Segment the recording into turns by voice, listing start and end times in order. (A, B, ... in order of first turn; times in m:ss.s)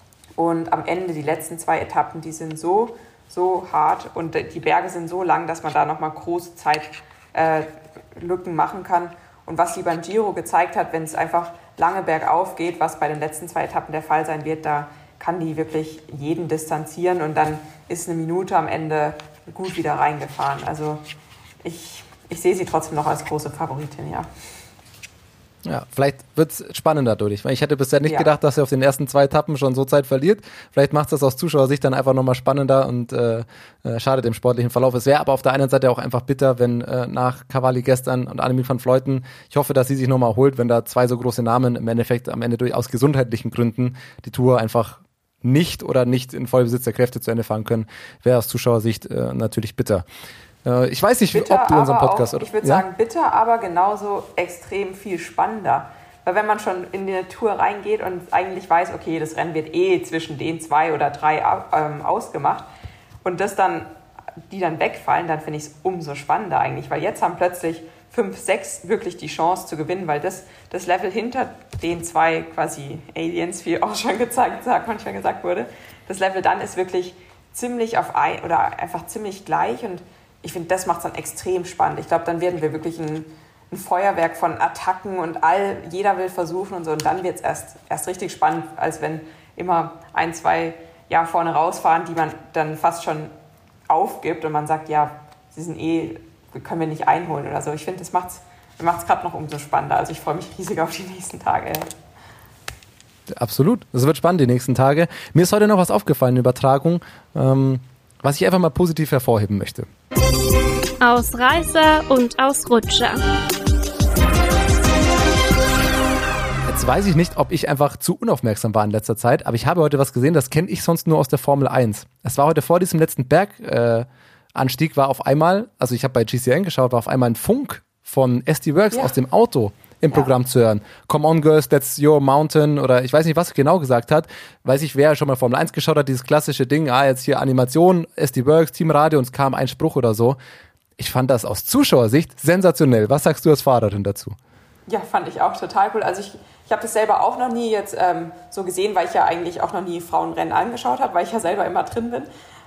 0:00.4-0:21.0 A
0:21.6-0:24.3 A
0:25.6-0:50.0 B
0:28.0-0:28.3 A
0:50.6-0:52.8 B
0:51.3-1:02.7 A
1:03.2-1:03.9 A
1:04.5-1:33.3 A
1:33.9-1:41.9 A
1:43.3-1:49.9 B
1:51.0-1:53.2 C
1:56.7-2:20.4 B
2:21.0-2:24.4 B
2:24.9-2:32.3 A